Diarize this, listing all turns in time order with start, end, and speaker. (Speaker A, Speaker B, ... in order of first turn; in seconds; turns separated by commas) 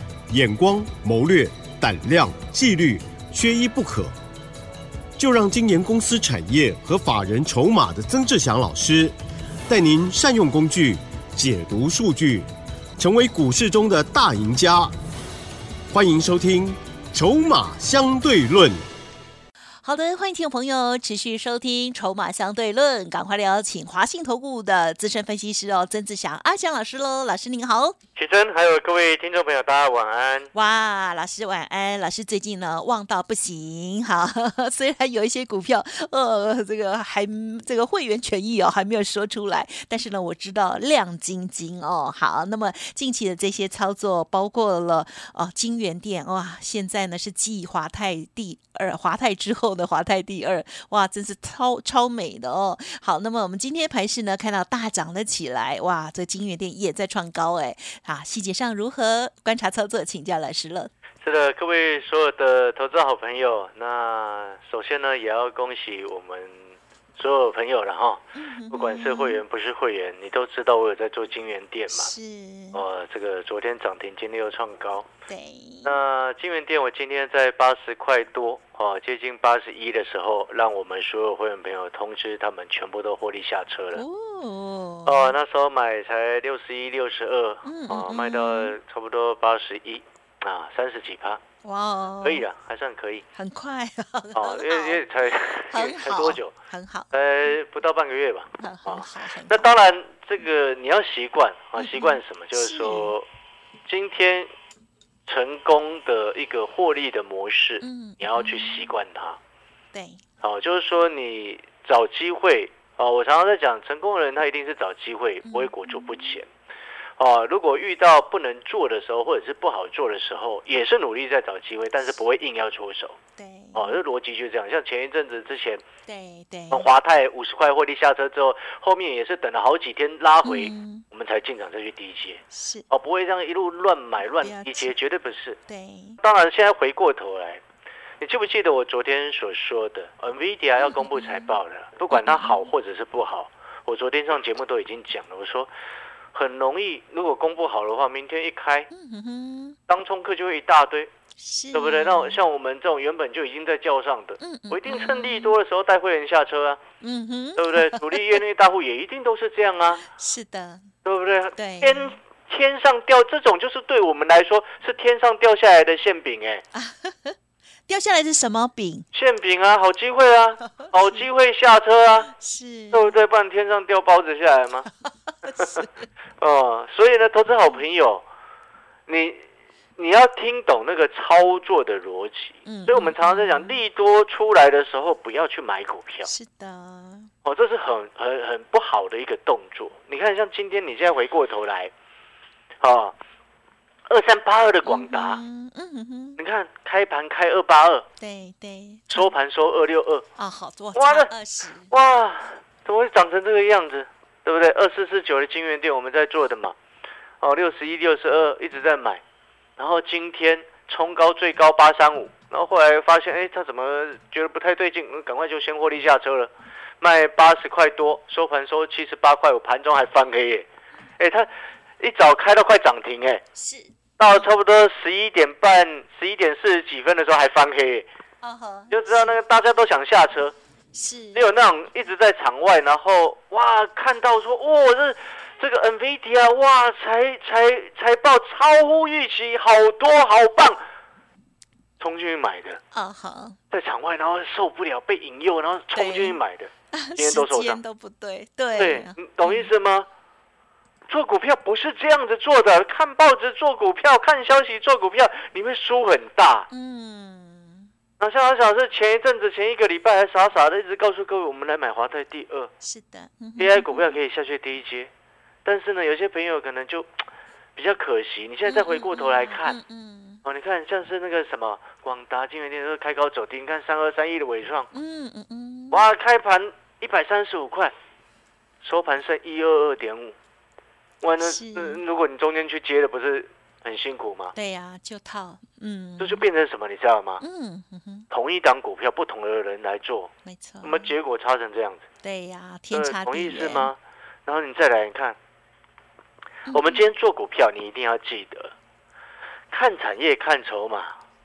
Speaker A: 0.3-4.2, Speaker A: 5.2-9.2, Speaker A: 9.7-14.9, Speaker A: 15.9-18.8, Speaker B: 19.8-28.0, Speaker C: 28.2-30.5, Speaker B: 30.5-60.9, Speaker C: 61.2-72.1, Speaker B: 68.4-69.4, Speaker B: 71.9-72.8, Speaker C: 72.7-75.1, Speaker B: 75.3-76.0, Speaker C: 75.8-84.0, Speaker B: 84.0-85.3, Speaker C: 85.0-91.4, Speaker B: 87.7-88.8, Speaker B: 91.6-92.4, Speaker C: 92.2-93.2, Speaker B: 93.4-95.0, Speaker C: 94.3-96.5, Speaker B: 95.7-97.1, Speaker C: 97.1-103.2, Speaker B: 98.6-99.7, Speaker B: 101.8-103.1, Speaker C: 103.9-104.5, Speaker C: 105.3-109.4, Speaker B: 107.8-108.9, Speaker B: 109.9-110.2, Speaker C: 110.4-116.5, Speaker B: 115.5-116.4, Speaker C: 117.2-123.2, Speaker B: 123.4-124.0, Speaker C: 123.8-125.8, Speaker B: 126.1-126.9, Speaker C: 126.7-135.6, Speaker B: 130.4-131.0, Speaker B: 132.5-132.9, Speaker B: 134.4-134.9, Speaker B: 135.7-136.2, Speaker C: 136.2-137.6, Speaker C: 138.2-145.7, Speaker B: 140.8-141.6, Speaker B: 142.1-142.7, Speaker C: 146.3-148.9, Speaker B: 148.9-149.8, Speaker C: 149.9-151.1, Speaker B: 151.4-152.4, Speaker C: 151.7-156.8, Speaker B: 154.4-155.6, Speaker B: 157.0-158.4, Speaker C: 157.6-160.0, Speaker B: 160.0-160.9, Speaker C: 161.1-166.6, Speaker B: 161.6-162.1, Speaker B: 166.7-167.4, Speaker B: 167.9-169.1, Speaker C: 169.1-172.3, Speaker B: 170.8-171.2, Speaker B: 172.3-173.1, Speaker C: 172.9-174.9, Speaker B: 175.4-175.9, Speaker C: 175.6-175.9, Speaker C: 176.4-178.2, Speaker C: 179.1-179.4, Speaker C: 180.0-186.3, Speaker B: 182.7-183.8, Speaker B: 186.3-187.3, Speaker C: 187.4-191.9, Speaker C: 192.8-193.2, Speaker C: 194.1-195.4, Speaker B: 194.8-196.4, Speaker C: 196.4-198.1, Speaker B: 198.2-199.3, Speaker C: 199.1-200.2, Speaker B: 200.4-201.9, Speaker C: 200.9-201.3, Speaker C: 201.9-206.8, Speaker C: 207.4-209.2, Speaker C: 209.8-220.7, Speaker C: 221.2-221.5, Speaker C: 222.0-223.4, Speaker B: 223.6-224.4, Speaker C: 224.2-228.1, Speaker B: 228.4-229.4, Speaker C: 228.9-230.6, Speaker B: 230.9-231.4, Speaker C: 231.3-240.8, Speaker C: 242.0-242.8, Speaker B: 242.9-243.6, Speaker C: 243.7-247.8, Speaker B: 245.9-246.4, Speaker B: 246.9-249.7, Speaker C: 248.8-250.1, Speaker C: 251.1-256.7, Speaker B: 256.7-257.9, Speaker C: 258.2-262.7, Speaker B: 262.8-264.1, Speaker C: 263.6-265.1, Speaker C: 265.6-267.2, Speaker C: 267.8-269.8, Speaker B: 268.7-270.4, Speaker C: 270.4-274.9, Speaker B: 274.9-276.1, Speaker C: 275.9-277.9, Speaker C: 278.8-280.4, Speaker C: 281.2-284.5, Speaker B: 281.4-282.0, Speaker B: 284.6-286.4, Speaker C: 286.2-287.4, Speaker B: 287.4-288.3, Speaker C: 288.3-290.3, Speaker B: 290.4-291.1, Speaker C: 290.8-292.1, Speaker B: 292.2-293.9, Speaker C: 292.9-295.4, Speaker B: 296.7-297.0, Speaker C: 296.7-298.7, Speaker C: 299.7-301.1